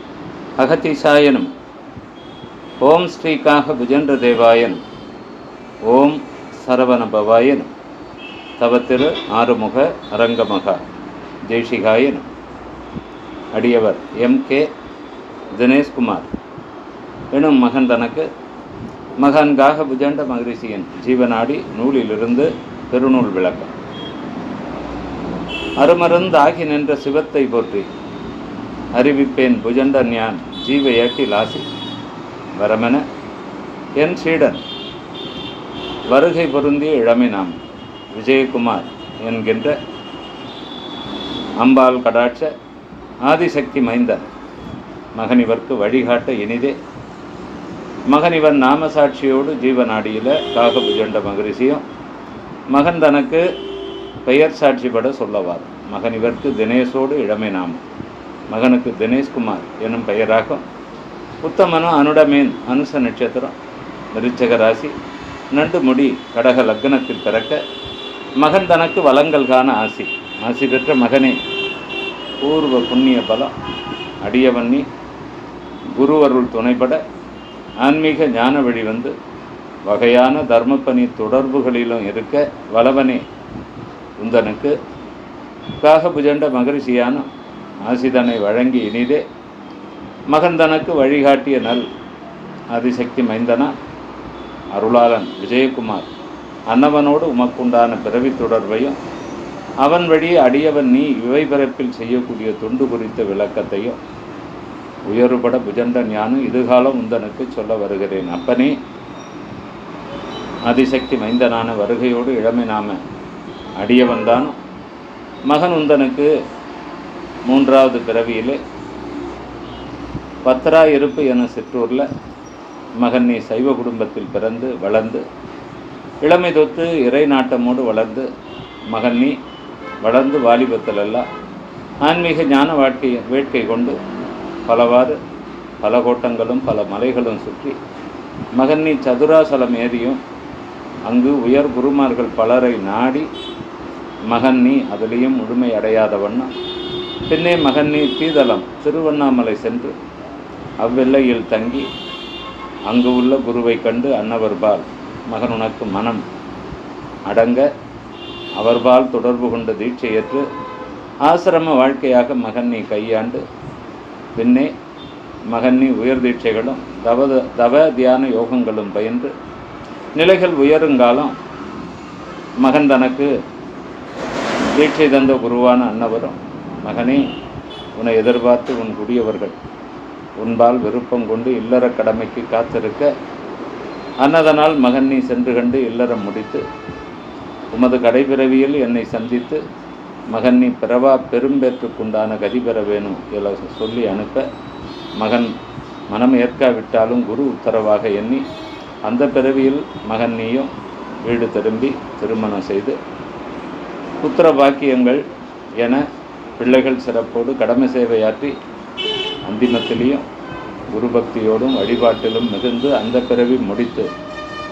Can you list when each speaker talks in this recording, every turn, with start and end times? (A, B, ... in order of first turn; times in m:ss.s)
0:00.6-0:01.5 A
0:02.8-0:04.8 A
0:05.8-0:07.7 A
0:08.6-0:10.8 A
0:11.4-0:12.3 A
0:13.5-0:14.7 A
0:15.6-0:16.3 A
0:17.3-0:18.3 A
0:19.2-0:23.7 A
0:25.8-0:27.9 A
0:28.9-0:31.7 A
0:32.6-0:33.0 A
0:34.0-0:34.6 A
0:36.1-0:37.6 A
0:38.2-0:39.8 A
0:41.6-0:42.5 A
0:43.2-0:44.3 A
0:45.2-0:46.8 A
0:48.1-0:51.8 A
0:52.7-0:53.5 A
0:54.2-0:57.8 A
0:58.5-1:00.6 A
1:01.4-1:03.5 A
1:04.2-1:04.9 A
1:05.5-1:07.6 A
1:08.4-1:11.4 A
1:12.4-1:13.5 A
1:14.2-1:14.9 A
1:15.9-1:17.0 A
1:17.8-1:19.1 A
1:19.9-1:23.2 A
1:24.2-1:24.8 A
1:25.8-1:27.3 A
1:27.8-1:29.2 A
1:30.3-1:31.8 A
1:32.7-1:33.7 A
1:34.8-1:36.1 A
1:36.7-1:39.0 A
1:39.8-1:44.0 A
1:45.1-1:48.8 A
1:50.6-1:53.0 A
1:53.8-1:54.6 A
1:55.5-1:56.3 A
1:57.5-1:58.6 A
2:00.4-2:02.1 A
2:03.0-2:05.2 A
2:06.2-2:08.3 A
2:08.9-2:09.4 A
2:10.0-2:11.2 A
2:12.0-2:14.0 A
2:14.7-2:15.2 A
2:15.8-2:17.8 A
2:18.6-2:20.2 A
2:21.1-2:23.3 A
2:24.3-2:26.5 A
2:27.3-2:30.0 A
2:30.8-2:31.9 A
2:32.9-2:36.2 A
2:37.3-2:37.7 A
2:38.6-2:40.4 A
2:41.3-2:43.4 A
2:44.4-2:44.7 A
2:45.5-2:49.3 A
2:50.2-2:51.3 A
2:52.6-2:53.3 A
2:54.7-2:57.2 A
2:58.0-2:59.6 A
3:00.4-3:03.1 A
3:04.2-3:06.6 A
3:07.7-3:09.6 A
3:10.3-3:14.5 A
3:15.2-3:15.5 A
3:16.1-3:18.4 A
3:19.0-3:20.7 A
3:21.2-3:23.0 A
3:24.2-3:25.2 A
3:25.8-3:26.0 A
3:26.6-3:28.6 A
3:29.5-3:30.2 A
3:30.9-3:34.1 A